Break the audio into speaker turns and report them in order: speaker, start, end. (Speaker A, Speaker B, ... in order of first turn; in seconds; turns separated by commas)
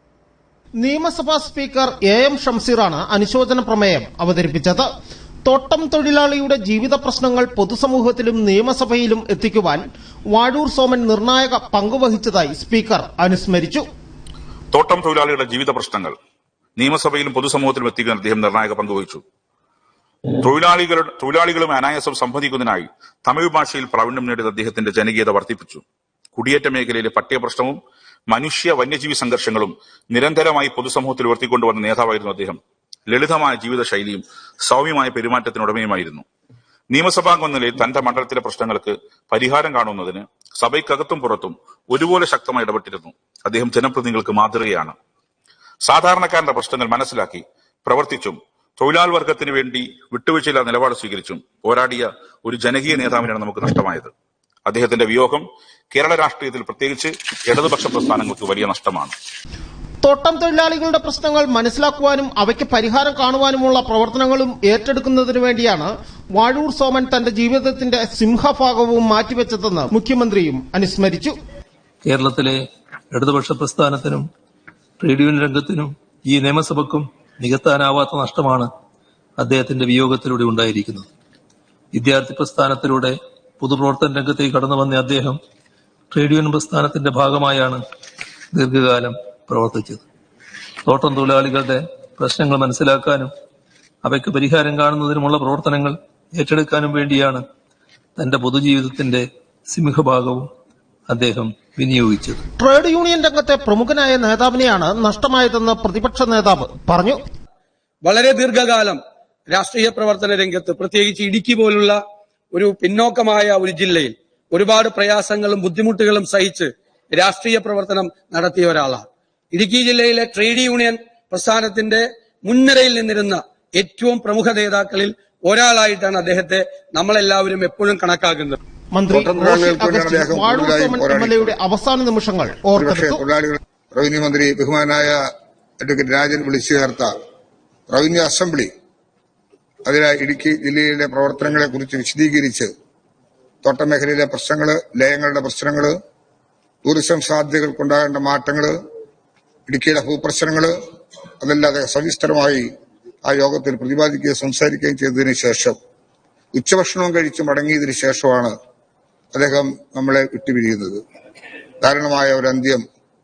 Speaker A: 0.8-4.9, Speaker A: 5.4-13.8, Speaker B: 14.7-16.1, Speaker B: 16.8-19.2, Speaker B: 20.4-25.8, Speaker B: 26.4-27.8, Speaker B: 28.3-32.6, Speaker B: 33.1-36.2, Speaker B: 36.9-44.9, Speaker B: 45.8-54.1, Speaker B: 54.6-59.1, Speaker A: 60.0-71.3, Speaker C: 72.0-74.2, Speaker C: 75.0-78.7, Speaker C: 79.4-81.1, Speaker C: 81.9-85.4, Speaker C: 86.1-87.8, Speaker C: 88.5-90.0, Speaker C: 90.8-93.3, Speaker C: 94.0-97.4, Speaker C: 98.2-100.5, Speaker C: 101.1-102.4, Speaker A: 102.6-107.2, Speaker D: 108.0-112.0, Speaker D: 112.5-128.6, Speaker A: 128.9-133.2, Speaker E: 129.1-131.5, Speaker E: 132.8-135.2, Speaker E: 135.8-137.1, Speaker E: 137.9-138.7, Speaker E: 139.8-142.7, Speaker E: 143.6-145.9, Speaker E: 146.8-148.7, Speaker E: 149.7-150.7, Speaker E: 151.4-152.7, Speaker E: 153.2-155.8, Speaker E: 156.5-158.5, Speaker E: 159.3-161.0, Speaker E: 161.8-162.8